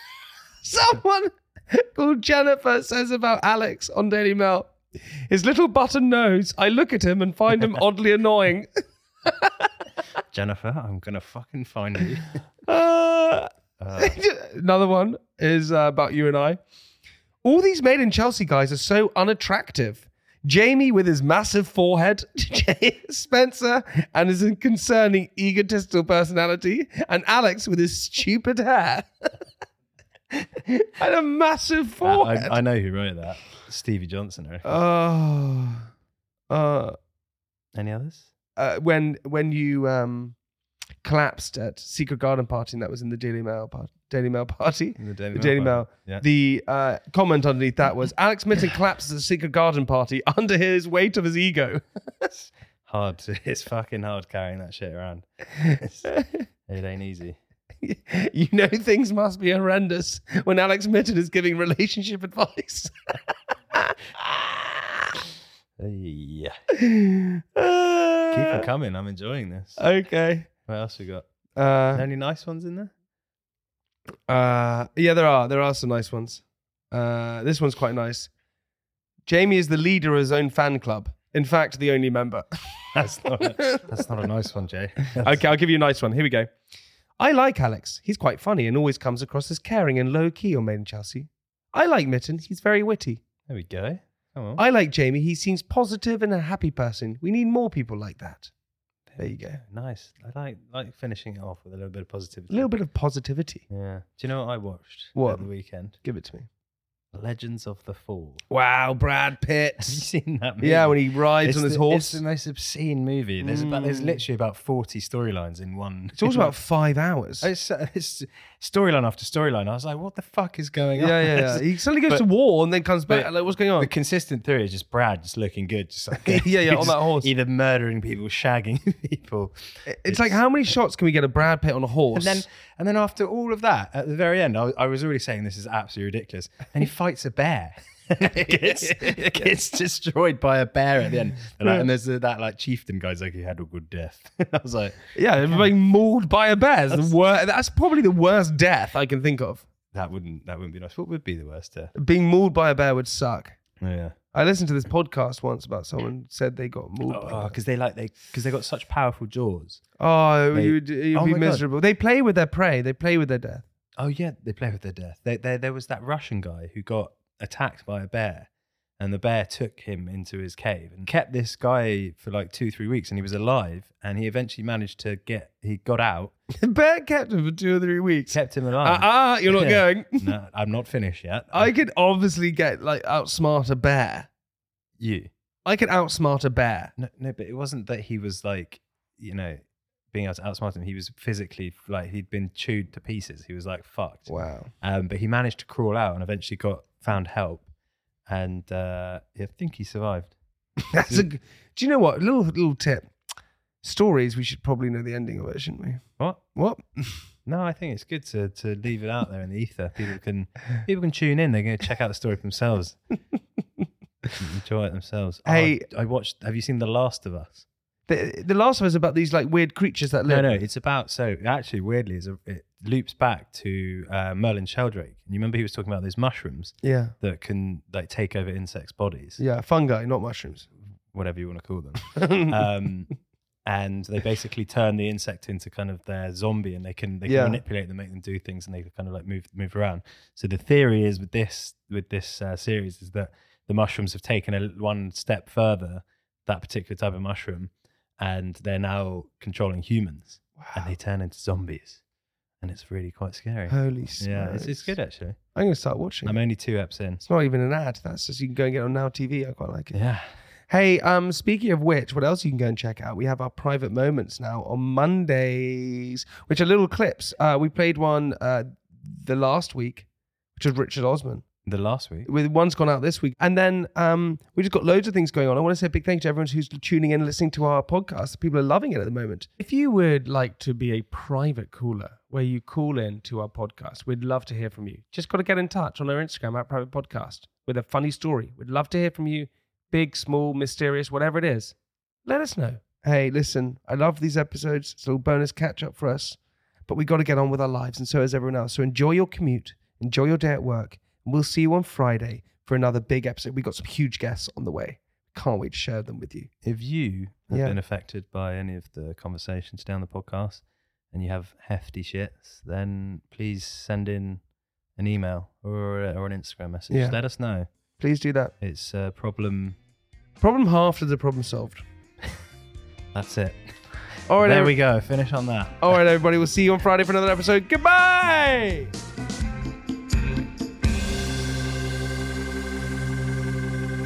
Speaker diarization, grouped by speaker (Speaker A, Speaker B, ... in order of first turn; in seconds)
Speaker A: 0.6-4.7, 5.3-9.7, 12.7-16.6, 17.4-29.3, 30.4-32.6, 34.6-35.9, 36.5-37.0, 38.6-40.4, 41.0-52.3, 57.8-62.9, 63.7-64.8, 66.8-68.7, 69.8-70.5, 71.5-72.0, 74.3-78.3, 79.2-83.9, 85.2-86.5, 87.2-93.2, 94.5-98.5, 99.2-99.6, 102.5-103.7, 105.2-106.5, 108.5-110.0, 110.6-112.2, 113.4-114.2, 116.1-117.5, 121.0-123.9, 126.1-127.3, 129.8-132.4, 138.2-139.5, 145.1-149.7, 151.9-153.6, 154.3-157.5, 160.0-163.6, 176.6-180.3, 181.5-184.3, 185.6-186.9, 194.3-194.7, 200.9-203.1, 203.8-206.0, 206.5-207.2, 215.4-215.8, 218.1-220.6, 226.8-227.1, 229.4-230.7, 232.2-232.5, 237.2-237.6, 250.6-250.9, 253.7-254.9, 255.5-256.4, 257.2-260.0, 260.7-271.4, 272.2-306.5, 307.5-307.8, 316.9-317.2, 318.0-318.5, 320.4-321.8, 324.3-324.7, 325.8-328.9
Speaker B: 10.3-12.4, 13.8-14.2, 32.0-34.8, 37.7-38.3, 45.0-46.2, 52.3-56.1, 56.7-57.4, 65.8-66.6, 68.3-69.8, 70.6-71.3, 71.9-72.9, 82.9-85.5, 93.5-94.6, 99.1-102.7, 103.7-106.0, 107.1-108.4, 109.8-116.5, 117.4-122.2, 123.1-130.4, 132.1-145.7, 149.9-151.9, 153.8-154.2, 157.1-159.8, 160.5-161.6, 164.0-168.5, 169.0-176.3, 178.3-181.7, 185.0-185.3, 187.0-197.7, 198.3-200.3, 200.9-201.3, 206.2-206.4, 207.4-213.0, 214.4-217.7, 220.3-229.4, 231.1-233.1, 233.6-252.0, 252.6-255.4, 256.2-257.2, 259.9-260.3, 271.6-272.3, 306.6-314.4, 314.9-317.7, 318.6-319.8, 323.1-326.0